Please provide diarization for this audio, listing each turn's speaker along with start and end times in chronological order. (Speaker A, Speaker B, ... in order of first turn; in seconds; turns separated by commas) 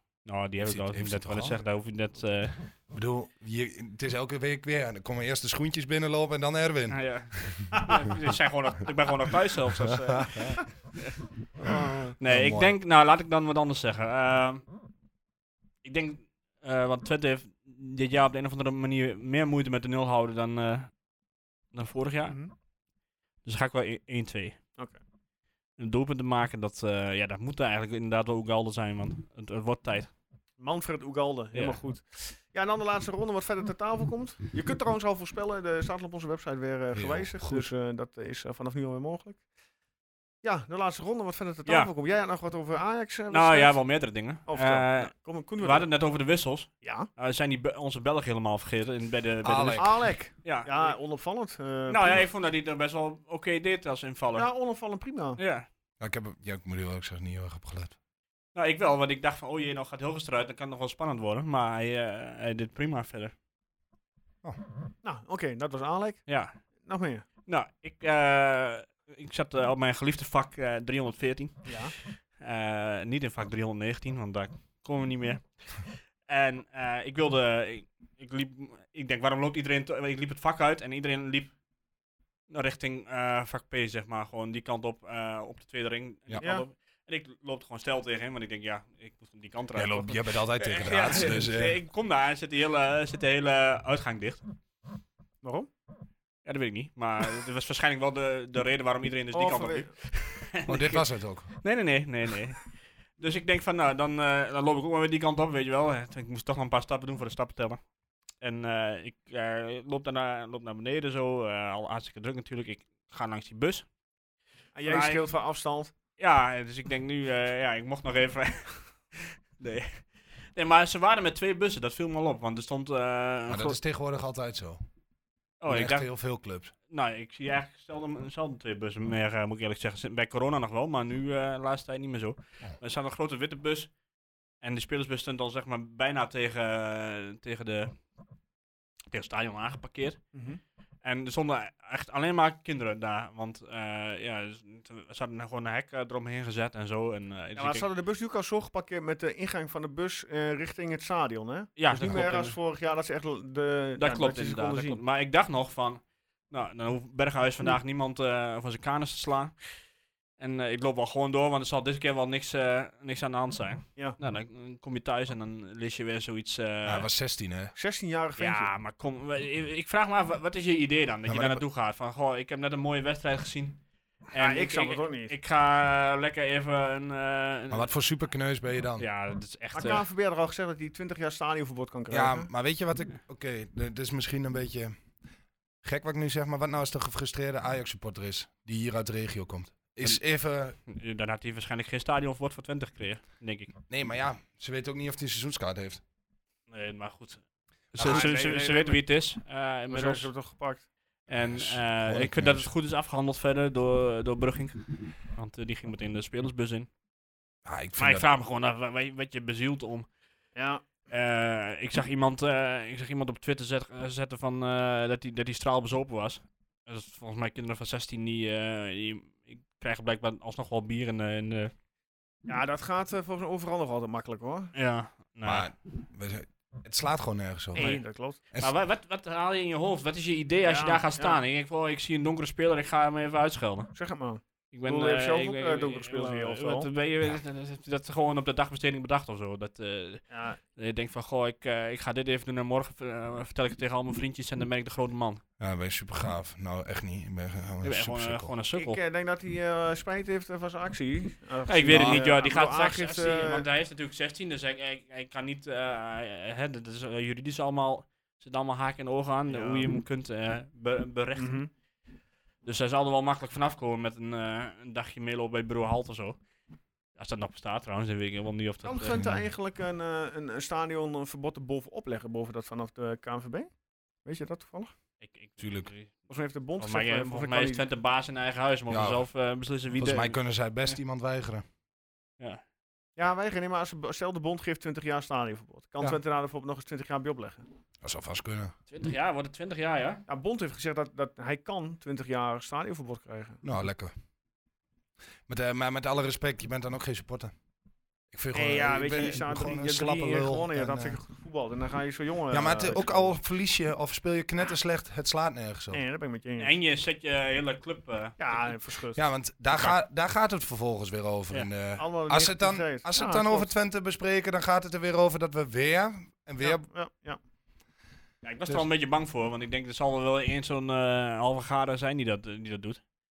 Speaker A: 0.2-2.6, Speaker B: 0.6-1.6, Speaker B: 2.9-7.7, Speaker A: 6.9-11.1, Speaker B: 9.9-10.6, Speaker B: 11.6-12.7, Speaker C: 11.6-12.2, Speaker A: 12.2-14.7, Speaker A: 15.8-20.9, Speaker A: 21.7-22.4, Speaker A: 23.4-24.6, Speaker A: 25.8-30.1, Speaker C: 30.6-39.4, Speaker A: 31.5-31.8, Speaker B: 36.9-37.7, Speaker C: 40.4-43.8, Speaker A: 43.3-51.0, Speaker C: 44.5-45.9, Speaker C: 46.8-47.1, Speaker B: 49.4-49.9, Speaker C: 49.8-52.3, Speaker A: 51.9-54.5, Speaker C: 54.3-55.4, Speaker A: 55.4-55.7, Speaker B: 56.0-58.0, Speaker A: 58.5-63.3, Speaker C: 65.0-67.3, Speaker A: 66.3-66.6, Speaker A: 67.5-81.5, Speaker C: 71.7-71.9, Speaker A: 82.5-94.4, Speaker C: 86.4-86.7, Speaker B: 89.8-91.8, Speaker C: 95.4-95.7, Speaker A: 96.5-113.9, Speaker C: 99.3-99.9, Speaker B: 100.7-101.5, Speaker C: 114.8-115.9, Speaker A: 114.9-115.3, Speaker A: 116.2-123.8, Speaker B: 123.5-124.8, Speaker A: 125.6-126.1, Speaker B: 125.7-126.7, Speaker A: 126.9-133.9, Speaker A: 134.6-138.0, Speaker A: 139.1-140.2, Speaker C: 140.3-140.6, Speaker A: 141.0-147.9, Speaker C: 147.6-155.0, Speaker A: 151.8-152.6, Speaker A: 154.0-159.6, Speaker A: 160.4-167.1, Speaker B: 166.8-167.7, Speaker C: 167.8-168.7, Speaker A: 168.4-177.9, Speaker B: 171.3-171.6, Speaker C: 174.4-175.4, Speaker B: 177.7-179.1, Speaker A: 179.0-180.1, Speaker C: 179.7-182.5, Speaker B: 182.1-184.9, Speaker B: 185.8-190.8, Speaker A: 190.9-193.7, Speaker B: 193.9-196.0, Speaker A: 196.7-197.4, Speaker B: 197.9-198.3, Speaker A: 197.9-200.3, Speaker C: 198.0-199.0, Speaker C: 199.9-200.9, Speaker A: 201.3-206.9, Speaker B: 201.4-202.7, Speaker B: 207.7-208.3, Speaker A: 208.0-210.1, Speaker C: 210.6-210.8, Speaker A: 211.1-221.7, Speaker C: 222.5-224.7, Speaker A: 224.7-225.7, Speaker B: 225.4-228.0, Speaker C: 227.8-228.4, Speaker A: 228.6-233.9, Speaker C: 230.6-231.4, Speaker C: 233.9-236.9, Speaker A: 234.7-245.4, Speaker C: 240.3-240.6, Speaker B: 245.6-248.5, Speaker A: 247.8-249.0, Speaker C: 248.7-253.7, Speaker A: 251.7-261.6, Speaker B: 251.9-252.3, Speaker C: 259.5-259.9, Speaker C: 261.4-261.7, Speaker A: 262.6-266.4, Speaker A: 267.2-269.2, Speaker C: 268.8-273.7, Speaker B: 269.1-269.5, Speaker C: 274.2-274.9, Speaker A: 275.2-276.1, Speaker B: 275.6-275.9, Speaker C: 276.3-277.9, Speaker A: 276.8-280.4, Speaker B: 278.9-279.3, Speaker B: 280.0-281.6, Speaker C: 283.2-287.7, Speaker B: 288.0-288.8, Speaker A: 288.9-290.2, Speaker C: 290.3-293.6, Speaker B: 293.6-294.1, Speaker B: 295.5-297.5, Speaker B: 298.3-301.2, Speaker C: 298.5-303.3, Speaker B: 302.5-306.0, Speaker C: 305.9-306.7, Speaker A: 306.6-308.7, Speaker C: 308.4-309.2, Speaker B: 309.1-316.9, Speaker C: 312.0-313.7, Speaker C: 316.6-317.4, Speaker A: 318.4-323.0